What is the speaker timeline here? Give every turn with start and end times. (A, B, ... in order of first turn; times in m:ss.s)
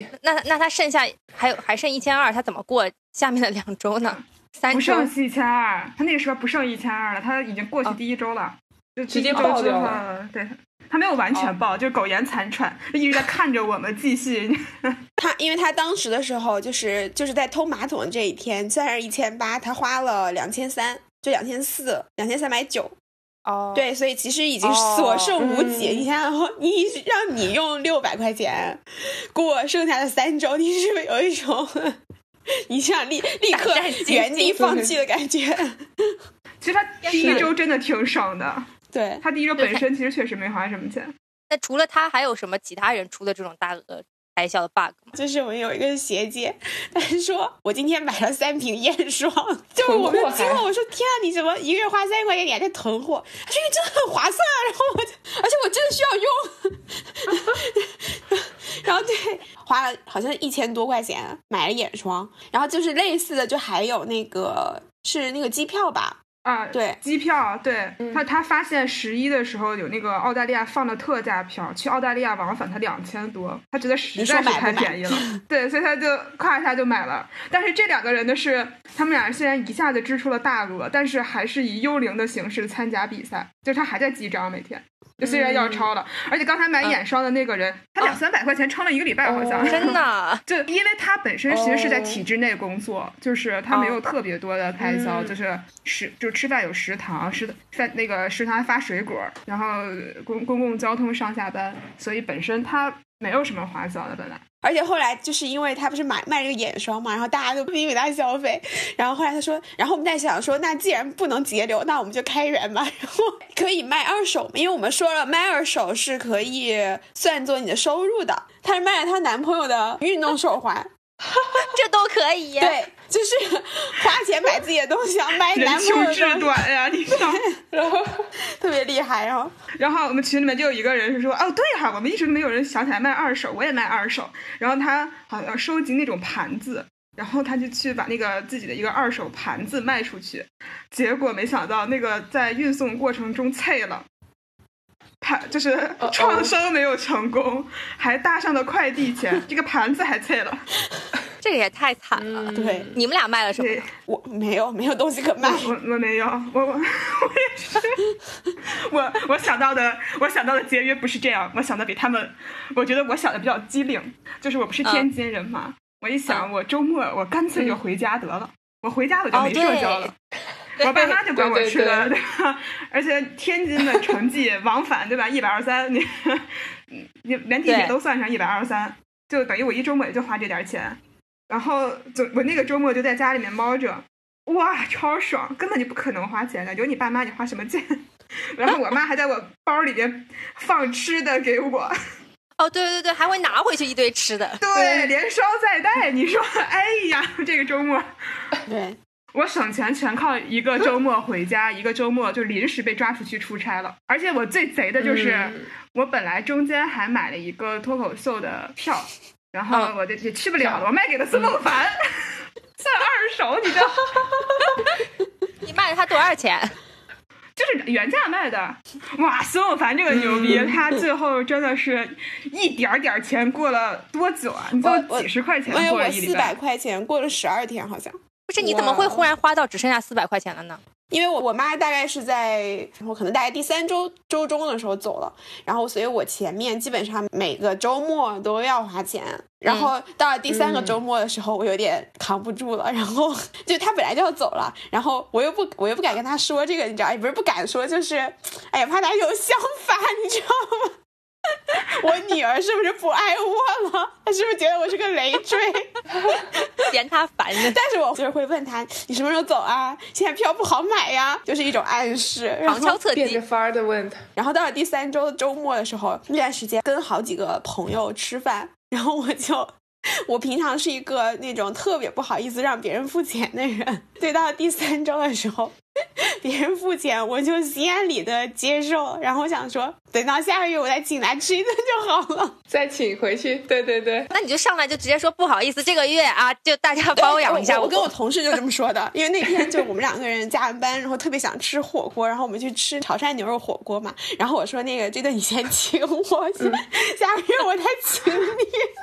0:00.2-0:05.1 A
0:04.1-0:15.0 B
0:09.1-0:10.0 C
0:15.2-0:22.9 D
0:23.5-0:23.9 A
0:23.7-0:32.0 D
0:24.6-0:25.4 A
0:25.4-0:26.1 C
0:32.7-0:36.2 D
0:33.5-0:34.7 A
0:34.6-0:35.0 C
0:36.6-0:38.7 B
0:37.0-0:37.5 A
0:37.1-0:37.5 D
0:38.9-0:39.2 D
0:39.2-0:41.1 B
0:39.6-0:39.8 A
0:41.5-0:45.2 A
0:45.2-1:06.2 D
0:49.8-0:50.7 C
1:06.4-1:44.4 B
1:06.7-1:07.0 D
1:14.2-1:15.4 D
1:25.2-1:25.9 C
1:29.2-1:30.0 C
1:29.6-1:30.4 A
1:31.5-1:32.2 C
1:33.7-1:34.0 A
1:34.8-1:35.4 C
1:44.6-2:00.9 D
2:01.3-2:01.7 C
2:01.6-2:02.8 A
2:02.6-2:06.5 D
2:05.5-2:07.4 B
2:07.7-2:08.3 C
2:08.5-2:09.5 D
2:09.8-2:24.1 B
2:25.2-2:30.7 B
2:26.0-2:26.5 C
2:31.4-2:33.9 A
2:32.2-2:33.0 C
2:32.6-2:32.9 D
2:33.6-2:33.9 B
2:34.1-2:35.7 D
2:35.4-2:38.0 B
2:38.7-2:50.1 B
2:49.3-2:50.1 A
2:50.8-2:51.1 A
2:50.8-3:11.9 B
2:51.3-2:52.1 C
2:57.7-2:58.0 A
3:12.6-3:14.6 A
3:14.6-3:18.1 B
3:14.7-3:15.1 C
3:18.7-3:19.0 D
3:19.3-3:34.2 B
3:25.0-3:25.7 C
3:30.6-3:31.6 C
3:35.6-3:36.7 A
3:37.6-3:46.6 B
3:40.1-3:40.8 C
3:44.8-3:49.2 D
3:48.5-3:50.8 A
3:51.1-4:11.0 D
3:59.7-3:59.9 A
4:00.5-4:01.0 C
4:11.7-4:16.9 D
4:16.2-4:16.4 C
4:16.8-4:17.8 A
4:17.6-4:23.0 D
4:22.6-4:23.4 A
4:23.1-4:24.2 C
4:24.4-4:35.8 D
4:36.4-4:42.6 D
4:42.7-4:44.3 C
4:44.3-4:48.1 A
4:47.2-4:58.9 D
4:56.6-4:56.8 C